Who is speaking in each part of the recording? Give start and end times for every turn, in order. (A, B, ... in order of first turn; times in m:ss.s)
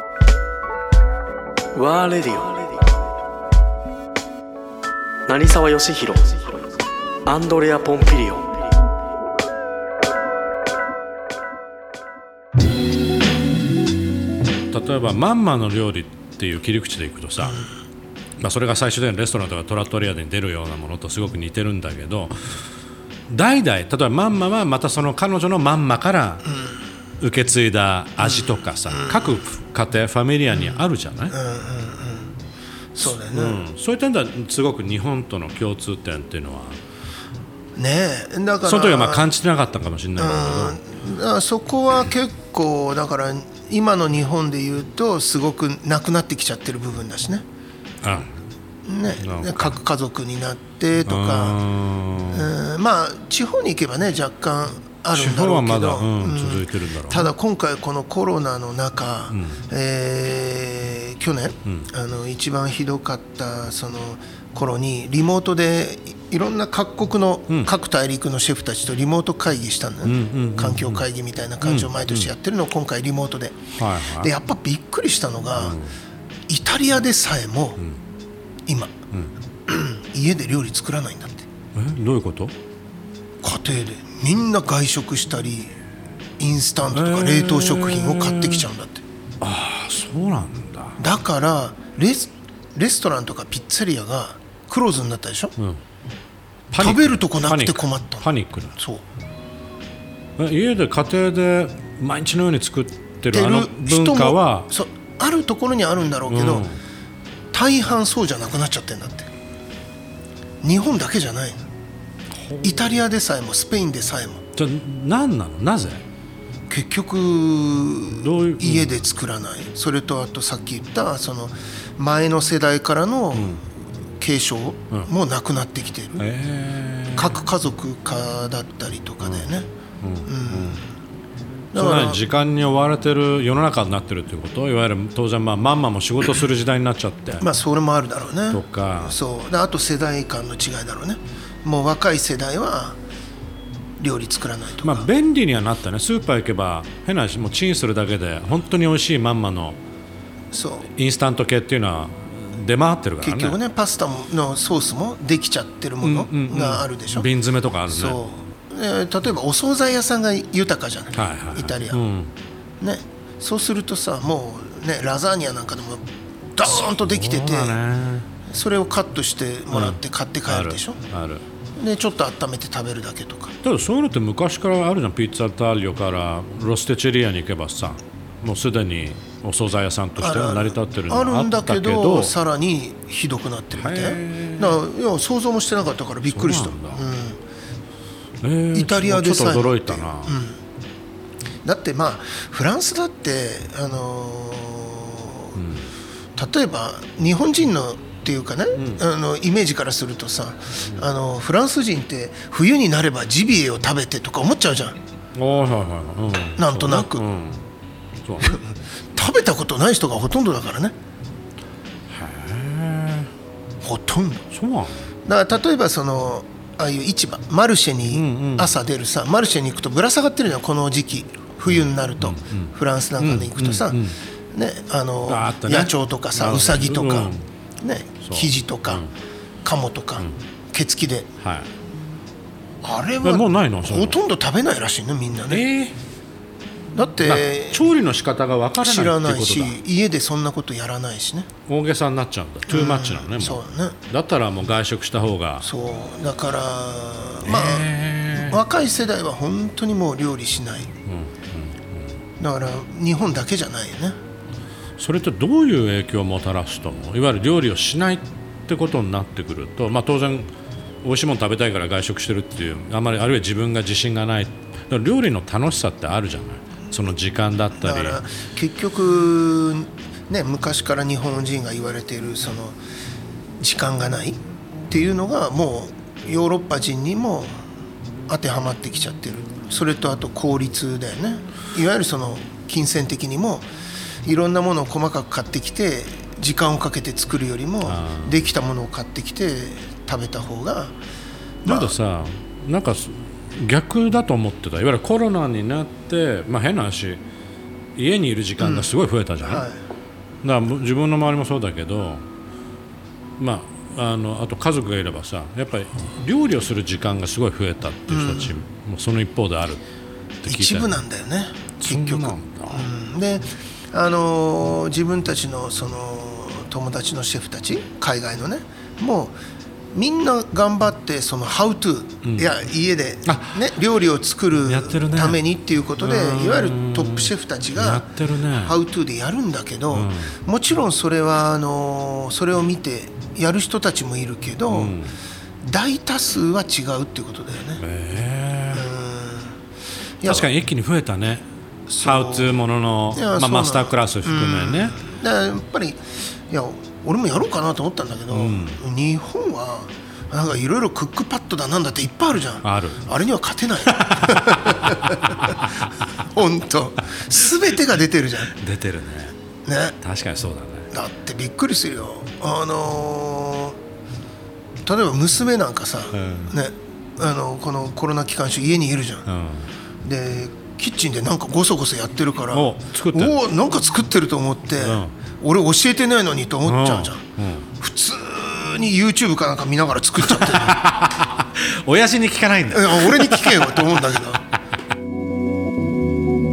0:01.8-0:02.5 A
0:05.3-0:06.3 A
0:07.2-0:08.4 A
0:14.7-0:17.7 B
0:18.4-0:22.6 B
0:23.3-0:26.4 B
0:26.4-0:26.8 C
0:27.2-0:31.3 B
0:28.2-0:29.4 C
0:30.5-0:32.3 C
0:32.9-0:33.6 C
0:33.0-0:36.8 B
0:37.8-0:39.3 C
0:38.6-0:40.8 B
0:40.2-0:47.4 C
0:48.0-0:48.4 B
0:48.8-0:51.6 C
0:49.2-0:49.8 B
0:51.1-0:52.5 B
0:52.3-1:13.7 C
0:55.1-0:57.3 B
0:59.3-0:59.6 B
1:10.0-1:11.0 B
1:11.6-1:12.3 B
1:13.8-1:14.3 B
1:14.2-1:15.8 C
1:15.6-1:16.0 B
1:16.5-1:17.8 C
1:18.7-1:18.9 C
1:19.7-1:21.4 C
1:21.7-1:22.5 B
1:23.4-1:25.8 C
1:26.4-1:29.0 C
1:26.9-1:28.7 B
1:29.4-1:31.0 B
1:31.0-1:35.6 C
1:36.7-1:38.7 B
1:36.8-1:39.0 C
1:40.4-1:44.7 B
1:43.3-1:46.7 C
1:46.2-1:46.8 B
1:47.5-1:49.3 C
1:50.6-1:51.6 C
1:52.3-1:53.0 B
1:52.6-1:54.4 C
1:54.6-1:56.0 B
1:56.7-2:06.3 C
1:58.1-1:59.1 B
2:03.3-2:03.6 B
2:06.2-2:07.4 B
2:07.1-2:09.7 C
2:09.2-2:09.5 B
2:10.0-2:10.8 B
2:10.2-2:10.9 C
2:11.7-2:12.2 C
2:11.7-2:17.5 B
2:17.4-2:23.0 C
2:18.5-2:19.2 B
2:24.0-2:25.1 C
2:24.8-2:29.8 B
2:30.5-2:30.9 C
2:30.9-2:33.6 B
2:33.2-2:37.3 C
2:36.0-2:38.2 B
2:37.9-2:42.0 C
2:41.1-2:42.3 B
2:42.8-2:47.8 C
2:46.6-2:48.3 B
2:48.4-2:51.0 C
2:49.7-2:51.4 B
2:51.8-2:53.6 C
2:53.6-3:02.3 B
3:00.2-3:07.4 C
3:03.7-3:04.8 B
3:06.2-3:07.0 B
3:08.4-3:10.4 B
3:08.7-3:10.6 C
3:11.6-3:15.6 C
3:15.6-3:15.9 B
3:16.4-3:25.0 C
3:18.8-3:19.0 B
3:25.4-3:27.7 B
3:26.6-3:27.2 C
3:28.2-3:28.6 B
3:28.4-3:30.9 C
3:32.1-3:33.3 B
3:33.8-3:34.5 C
3:34.5-3:35.1 B
3:35.2-3:49.0 C
3:38.1-3:38.7 B
3:41.7-3:44.2 B
3:45.3-3:47.4 B
3:48.2-3:49.1 B
3:49.6-3:51.3 C
3:51.4-3:51.7 B
3:52.8-3:55.6 C
3:53.2-3:54.2 B
3:55.5-3:56.0 B
3:56.9-3:57.9 C
3:57.2-3:59.8 B
3:58.8-4:01.5 C
4:01.7-4:05.6 B
4:02.7-4:04.0 C
4:05.6-4:10.9 C
4:07.4-4:08.6 B
4:11.0-4:12.1 B
4:12.4-4:14.2 C
4:15.0-4:20.5 B
4:21.0-4:28.2 B
4:27.8-4:32.8 C
4:33.6-4:37.6 C
4:38.3-4:43.7 C
4:44.2-4:50.9 C
4:47.8-4:48.4 B
4:51.6-4:51.9 C
4:51.6-4:57.2 B
4:58.0-4:59.6 B
4:58.6-4:59.8 C
5:00.4-5:02.2 B
5:03.4-5:09.8 B
5:08.1-5:08.6 C
5:10.4-5:11.0 B
5:10.5-5:19.4 C
5:11.8-5:12.9 B
5:19.9-5:35.0 C
5:22.2-5:22.5 B
5:23.2-5:23.7 B
5:24.6-5:25.4 B
5:26.0-5:28.8 B
5:29.9-5:30.4 B
5:34.7-5:35.2 B
5:35.6-5:37.8 C
5:37.8-5:38.9 B
5:38.7-5:39.6 C
5:40.2-5:40.5 C
5:40.2-5:41.4 B
5:41.9-5:42.6 C
5:42.0-5:45.0 B
5:43.1-5:55.6 C
5:48.3-5:48.8 B
5:52.6-5:53.1 B
5:53.9-5:55.7 B
5:56.1-5:58.5 C
5:58.5-5:59.4 B
5:59.6-6:00.0 C
6:00.0-6:00.9 B
6:00.9-6:03.8 C
6:04.8-6:09.3 C
6:06.1-6:06.6 B
6:09.2-6:09.7 B
6:10.0-6:17.2 C
6:12.5-6:13.4 B
6:14.8-6:15.1 B
6:16.6-6:17.7 B
6:17.8-6:20.9 C
6:20.2-6:24.2 B
6:22.7-6:24.4 C